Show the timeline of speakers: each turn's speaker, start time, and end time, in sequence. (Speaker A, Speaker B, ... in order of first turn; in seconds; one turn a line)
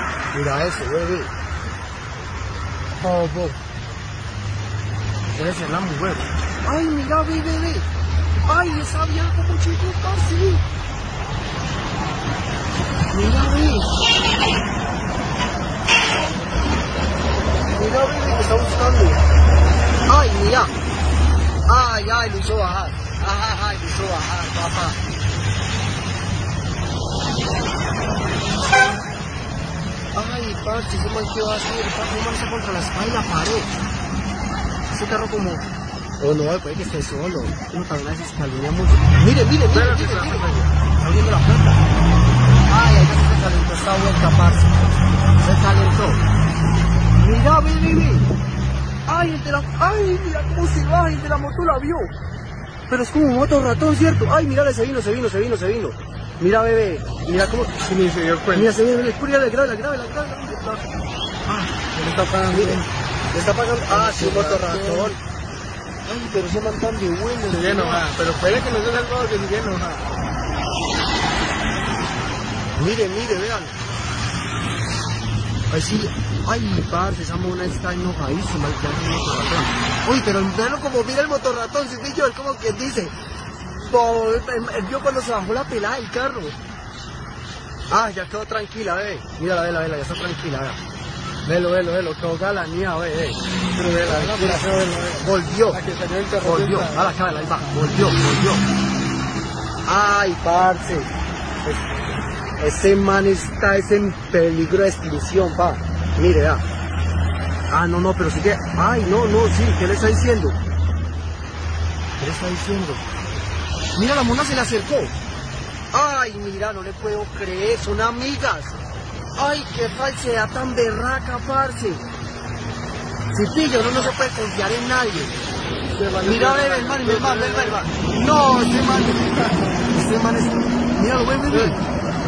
Speaker A: 0.3-1.3
Speaker A: 3.0-3.6
Speaker A: 5.3-7.9
Speaker A: 8.4-10.6
Speaker A: 13.1-14.0
Speaker A: 17.7-19.2
Speaker A: 20.1-20.7
Speaker A: 21.7-25.0
Speaker A: 30.1-33.7
Speaker A: 34.9-35.6
Speaker A: 36.2-40.5
Speaker B: 39.7-40.7
Speaker A: 41.0-41.8
Speaker A: 42.7-46.2
Speaker A: 47.2-48.3
Speaker A: 49.1-52.1
Speaker A: 52.9-57.8
Speaker B: 57.8-58.7
Speaker A: 58.5-60.9
Speaker A: 61.5-61.7
Speaker B: 61.8-62.9
Speaker A: 62.5-65.2
Speaker B: 63.9-65.2
Speaker A: 66.0-68.1
Speaker B: 67.5-70.1
Speaker A: 72.8-73.8
Speaker A: 75.7-83.1
Speaker A: 83.7-86.6
Speaker A: 87.9-90.8
Speaker A: 91.4-93.4
Speaker B: 93.7-97.7
Speaker A: 94.0-95.8
Speaker A: 96.4-98.7
Speaker A: 99.9-101.1
Speaker A: 102.6-106.6
Speaker A: 107.7-110.6
Speaker A: 112.2-113.1
Speaker A: 114.0-115.1
Speaker A: 115.9-118.8
Speaker A: 119.4-122.0
Speaker A: 123.3-125.4
Speaker B: 125.9-127.8
Speaker A: 126.2-131.8